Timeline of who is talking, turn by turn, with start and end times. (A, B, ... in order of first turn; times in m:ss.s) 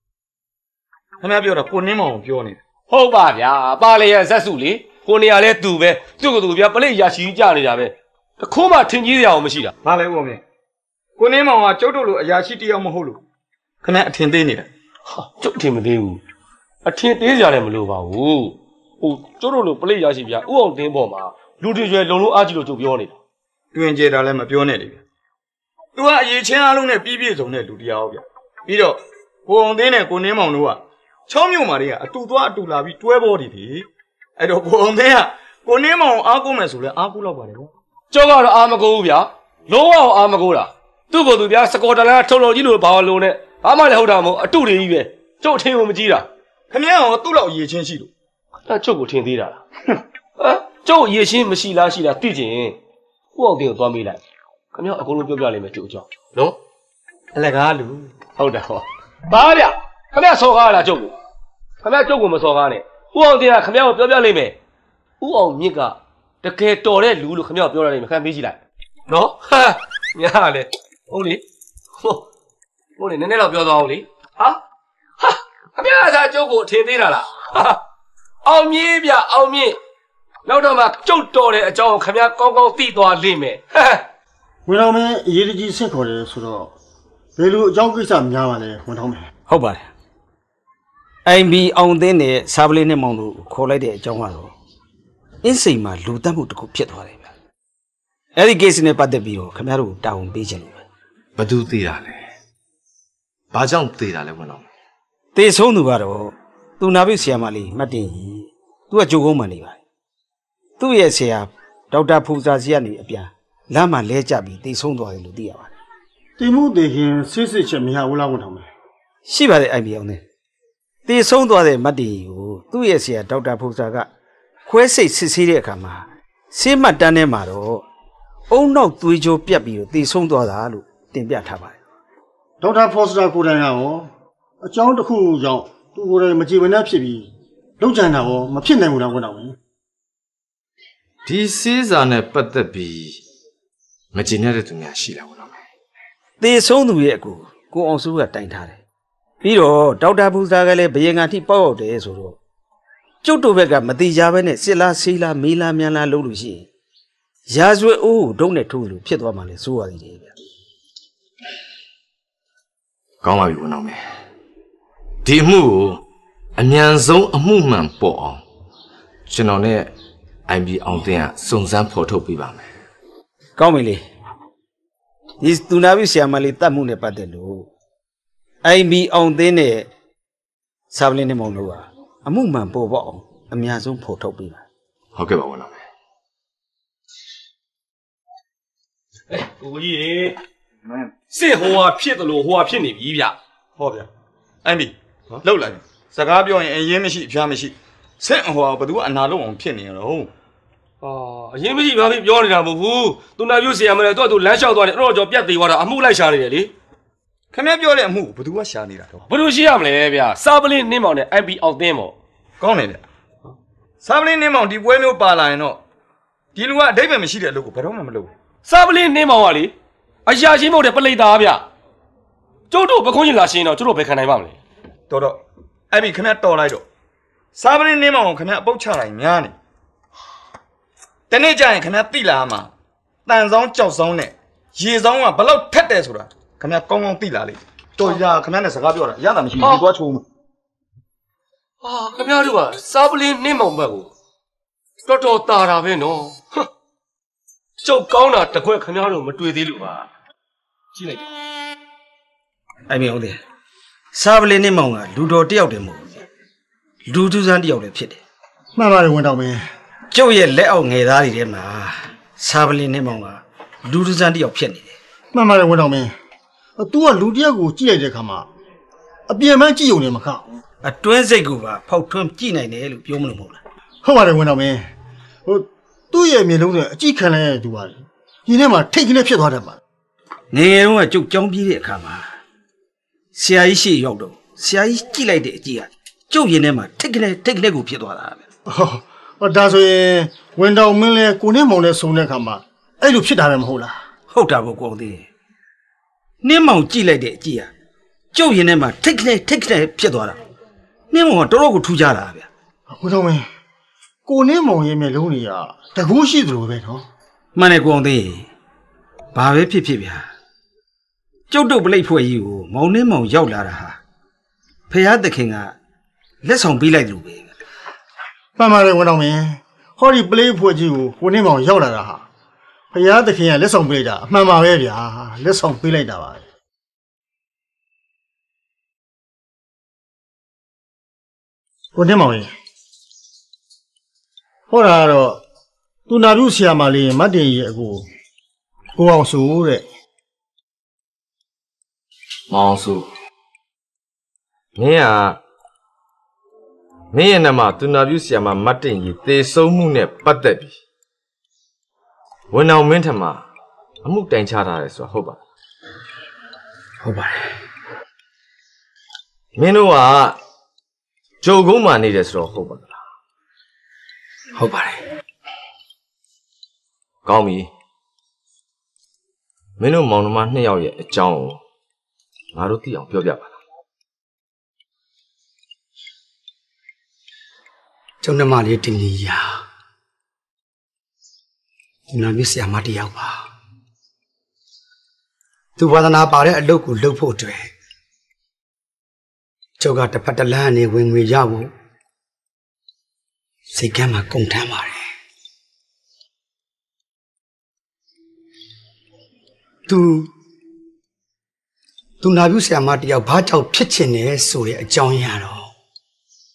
0:01.2-0:02.6 A
0:02.9-0:09.7 B
0:09.8-0:10.4 A
0:11.2-0:13.2 A
0:13.8-0:14.7 A
0:15.2-0:16.2 B
0:16.8-0:23.2 B
0:23.7-0:25.0 A
0:26.0-0:33.9 A
0:34.4-0:37.7 A
0:38.1-0:46.3 B
0:46.7-0:48.1 A
0:48.7-0:49.6 B
0:50.4-0:52.8 B
0:53.4-0:54.2 B
0:54.7-0:56.6 B
0:58.4-1:01.2 B
1:01.8-1:04.6 B
1:05.2-1:08.6 B
1:09.1-1:11.4 B
1:13.0-1:14.6 B
1:15.2-1:17.8 B
1:18.4-1:19.8 B
1:20.5-1:24.0 B
1:24.7-1:26.7 C
1:27.4-1:29.3 C
1:29.5-1:29.8 D
1:31.3-1:34.5 D
1:35.4-1:37.3 D
1:38.4-1:40.8 D
1:41.4-1:42.2 E
1:43.5-1:44.7 E
1:45.4-1:49.8 D
1:50.8-1:55.7 D
1:56.4-1:58.7 C
1:59.3-2:00.2 D
2:01.1-2:04.1 D
2:04.7-2:07.8 D
2:08.5-2:11.8 D
2:12.6-2:14.1 C
2:14.6-2:19.6 C
2:21.3-2:23.2 E
2:24.1-2:25.6 E
2:26.4-2:28.8 D
2:29.4-2:32.4 D
2:33.2-2:36.7 D
2:37.5-2:40.3 D
2:43.2-2:44.0 E
2:45.2-2:46.0 E
2:46.6-2:48.4 E
2:49.3-2:49.9 E
2:50.5-2:52.7 E
2:53.6-2:54.0 D
2:55.4-2:57.7 D
2:58.6-2:59.9 D
3:00.9-3:04.6 D
3:05.2-3:05.8 E
3:09.3-3:10.4 B
3:11.3-3:13.4 B
3:13.8-3:14.1 A
3:14.6-3:20.3 A
3:21.0-3:26.7 B
3:27.5-3:29.1 A
3:29.3-3:32.1 B
3:32.6-3:33.0 A
3:34.0-3:35.8 A
3:36.6-3:38.3 A
3:38.7-3:39.7 B
3:40.3-3:41.6 B
3:42.7-3:44.6 B
3:45.1-3:46.8 A
3:47.6-3:49.6 A
3:51.3-3:52.7 A
3:53.3-4:00.2 A
4:01.8-4:04.1 B
4:05.0-4:06.6 B
4:07.8-4:10.1 B
4:11.0-4:11.2 B
4:12.9-4:13.4 D
4:14.1-4:16.2 D
4:17.1-4:18.2 D
4:18.8-4:19.7 C
4:20.1-4:25.0 D
4:25.3-4:26.1 C
4:26.8-4:28.5 C
4:29.3-4:30.6 C
4:30.8-4:33.6 D
4:34.0-4:34.9 C
4:35.4-4:39.8 C
4:40.5-4:42.3 D
4:43.4-4:48.4 D
4:48.7-4:54.0 C
4:54.3-4:55.3 D
4:56.4-4:57.7 D
4:58.3-5:00.4 D
5:01.1-5:02.5 D
5:02.9-5:03.5 C
5:04.2-5:07.1 C
5:07.6-5:08.5 D
5:09.3-5:10.2 D
5:11.5-5:14.0 D
5:14.9-5:15.7 D
5:16.4-5:17.5 D
5:18.6-5:22.2 C
5:22.9-5:26.4 C
5:32.0-5:32.5 C
5:34.7-5:35.4 C
5:36.1-5:38.0 C
5:39.0-5:39.8 C
5:42.5-5:43.1 E
5:44.8-5:45.4 E
5:47.1-5:50.7 E
5:52.5-5:53.4 E
5:54.0-5:55.4 E
5:59.6-6:00.4 E
6:01.4-6:02.9 E
6:04.6-6:05.0 F
6:07.2-6:07.7 E
6:09.8-6:11.6 E
6:12.5-6:13.6 E
6:18.2-6:19.5 F
6:22.1-6:23.4 F
6:25.8-6:27.7 F
6:29.8-6:31.7 F
6:33.7-6:35.1 F
6:39.9-6:40.3 F
6:42.2-6:45.7 F